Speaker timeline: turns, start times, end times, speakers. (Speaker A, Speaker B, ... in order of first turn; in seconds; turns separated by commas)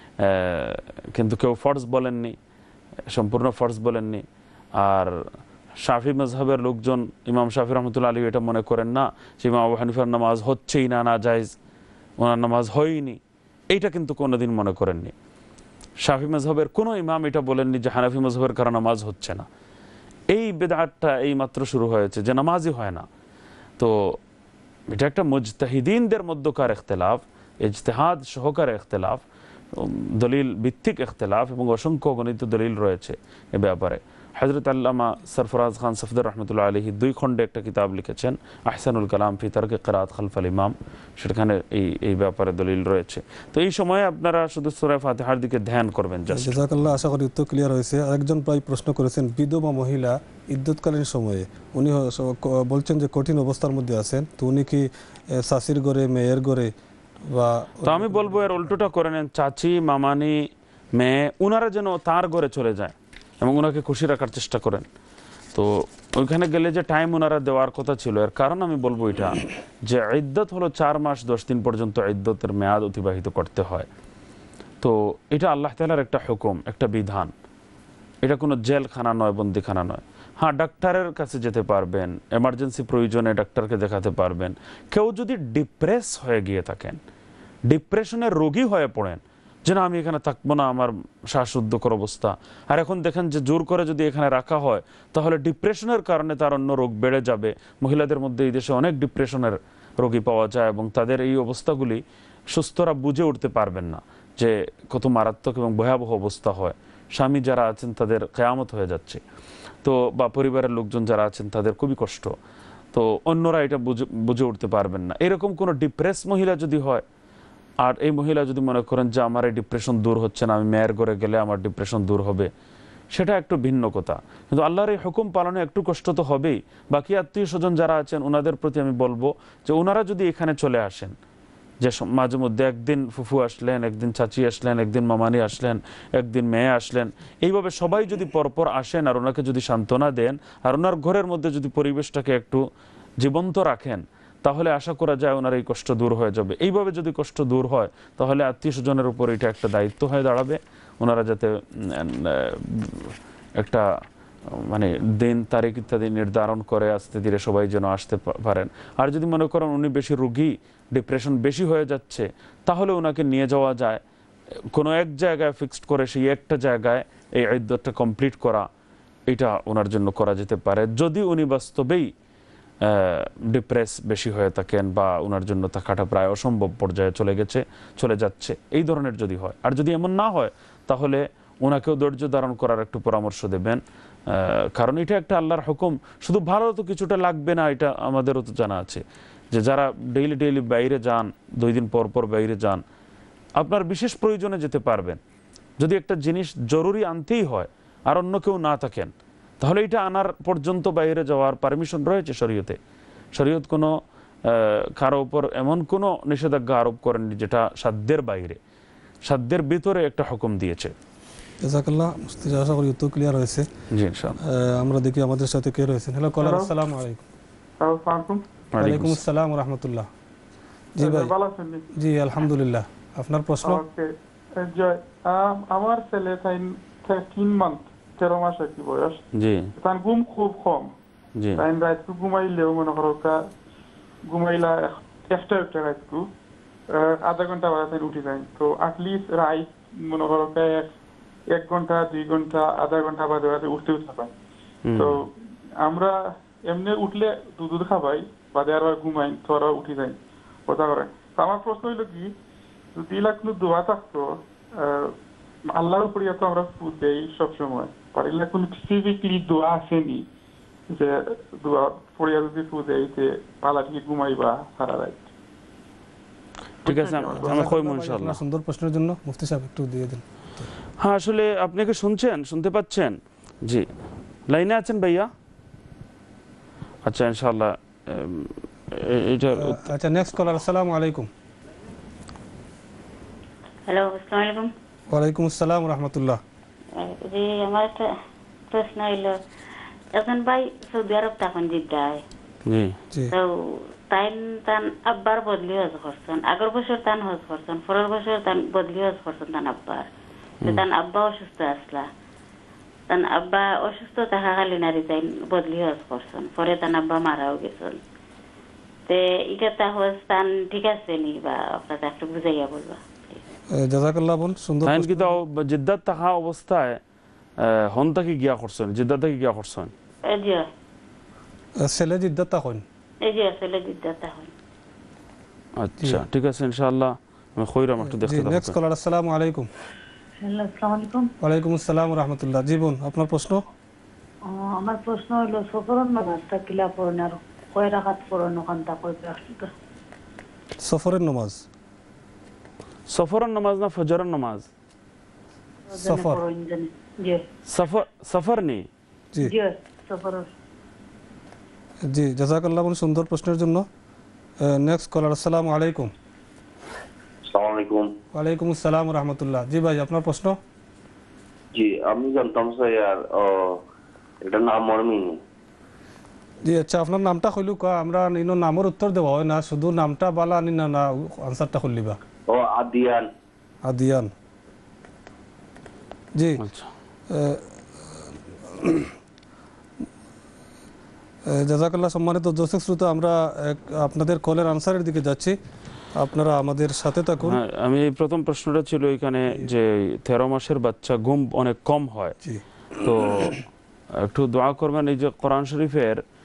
Speaker A: 0.2-2.4, Speaker A: 3.1-4.2, Speaker A: 4.8-5.2, Speaker A: 5.8-11.5, Speaker A: 12.2-15.1, Speaker A: 16.0-19.5, Speaker A: 20.3-23.1, Speaker A: 23.8-24.2, Speaker A: 24.9-46.6, Speaker B: 46.3-56.7, Speaker B: 57.3-58.9, Speaker A: 57.8-64.9, Speaker A: 65.5-73.9, Speaker A: 74.8-77.3, Speaker A: 78.2-87.0, Speaker A: 87.7-109.2, Speaker A: 109.8-112.3, Speaker A: 112.9-117.0, Speaker A: 117.8-122.5, Speaker A: 123.1-131.2, Speaker A: 131.8-142.7, Speaker A: 143.2-153.8, Speaker A: 154.5-164.0, Speaker A: 164.7-168.7, Speaker A: 169.3-172.1, Speaker A: 172.8-192.8, Speaker A: 193.6-195.2, Speaker A: 195.8-202.8, Speaker A: 203.3-208.6, Speaker A: 209.2-210.9, Speaker B: 211.6-213.7, Speaker A: 213.9-214.4, Speaker B: 214.4-217.2, Speaker C: 216.4-216.7, Speaker C: 217.8-218.4, Speaker A: 218.7-219.2, Speaker B: 218.8-220.1, Speaker B: 220.9-221.3, Speaker C: 221.0-221.8, Speaker B: 221.9-223.8, Speaker C: 223.6-229.2, Speaker A: 229.3-229.7, Speaker C: 229.8-230.9, Speaker A: 231.4-231.6, Speaker C: 231.6-233.3, Speaker C: 234.3-236.2, Speaker C: 236.9-240.9, Speaker C: 241.5-244.3, Speaker A: 244.8-245.2, Speaker C: 245.0-245.3, Speaker C: 245.8-246.1, Speaker C: 246.7-252.3, Speaker C: 252.9-255.1, Speaker C: 255.7-260.2, Speaker C: 260.9-265.3, Speaker C: 266.8-267.8, Speaker A: 266.9-268.4, Speaker B: 267.3-270.7, Speaker A: 271.0-273.9, Speaker A: 274.5-275.3, Speaker A: 277.1-279.9, Speaker B: 279.5-281.3, Speaker D: 283.9-284.7, Speaker B: 285.1-286.4, Speaker D: 286.9-288.1, Speaker D: 288.7-289.4, Speaker D: 290.1-292.2, Speaker A: 292.7-293.0, Speaker D: 293.3-300.1, Speaker D: 300.6-302.1, Speaker D: 303.1-308.0, Speaker D: 309.1-313.4, Speaker B: 313.7-315.4, Speaker A: 314.9-317.0, Speaker A: 317.6-319.9, Speaker D: 320.2-320.7, Speaker B: 321.8-322.8, Speaker D: 323.2-324.5, Speaker A: 325.8-328.8, Speaker B: 328.0-329.7, Speaker E: 330.4-331.3, Speaker B: 331.4-333.6, Speaker E: 334.4-339.7, Speaker B: 340.8-341.6, Speaker A: 343.1-344.7, Speaker E: 345.9-347.4, Speaker B: 346.0-346.4, Speaker A: 347.7-348.9, Speaker E: 349.4-350.5, Speaker B: 352.1-353.9, Speaker B: 354.6-356.1, Speaker F: 357.5-358.1, Speaker B: 358.3-360.6, Speaker F: 361.7-363.8, Speaker F: 364.4-365.4, Speaker B: 366.6-372.2, Speaker F: 372.5-373.3, Speaker B: 373.8-374.3, Speaker B: 376.3-376.6, Speaker A: 376.6-376.9, Speaker B: 377.3-379.1, Speaker B: 381.4-385.6, Speaker B: 386.1-387.6, Speaker A: 387.4-392.3, Speaker A: 392.9-393.6, Speaker A: 394.1-396.2